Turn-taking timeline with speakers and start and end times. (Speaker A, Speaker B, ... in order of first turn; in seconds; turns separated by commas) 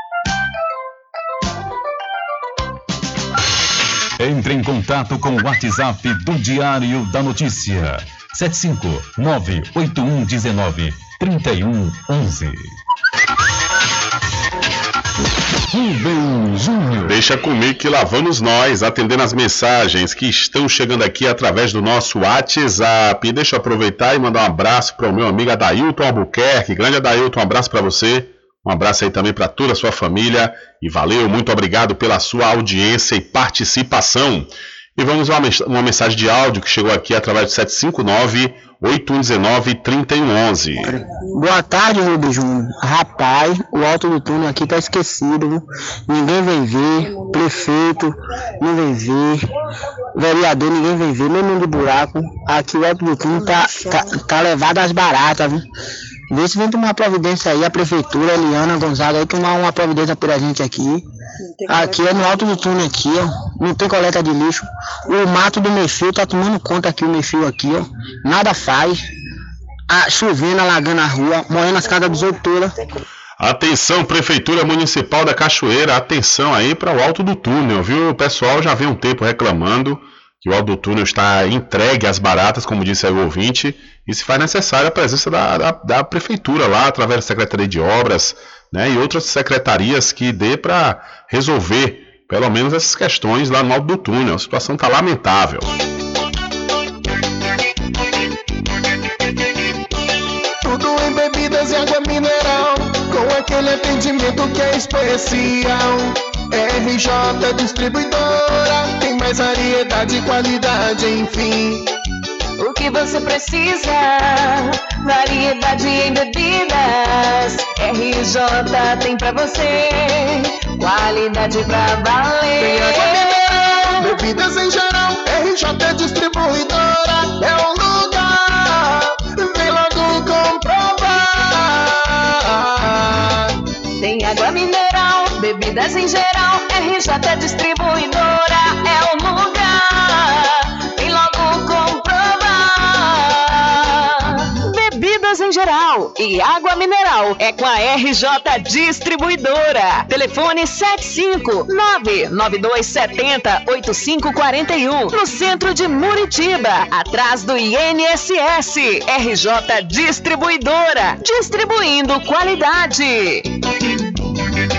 Speaker A: 4.2-12.8, Speaker A: 15.7-17.2, Speaker B: 17.1-40.9, Speaker C: 40.9-49.5, Speaker C: 50.1-55.6, Speaker C: 56.3-61.0, Speaker C: 61.7-69.0, Speaker C: 69.9-72.8, Speaker B: 73.4-95.7, Speaker D: 100.6-111.9, Speaker E: 112.6-124.2, Speaker D: 122.6-123.4, Speaker D: 123.9-133.5, Speaker E: 134.0-163.5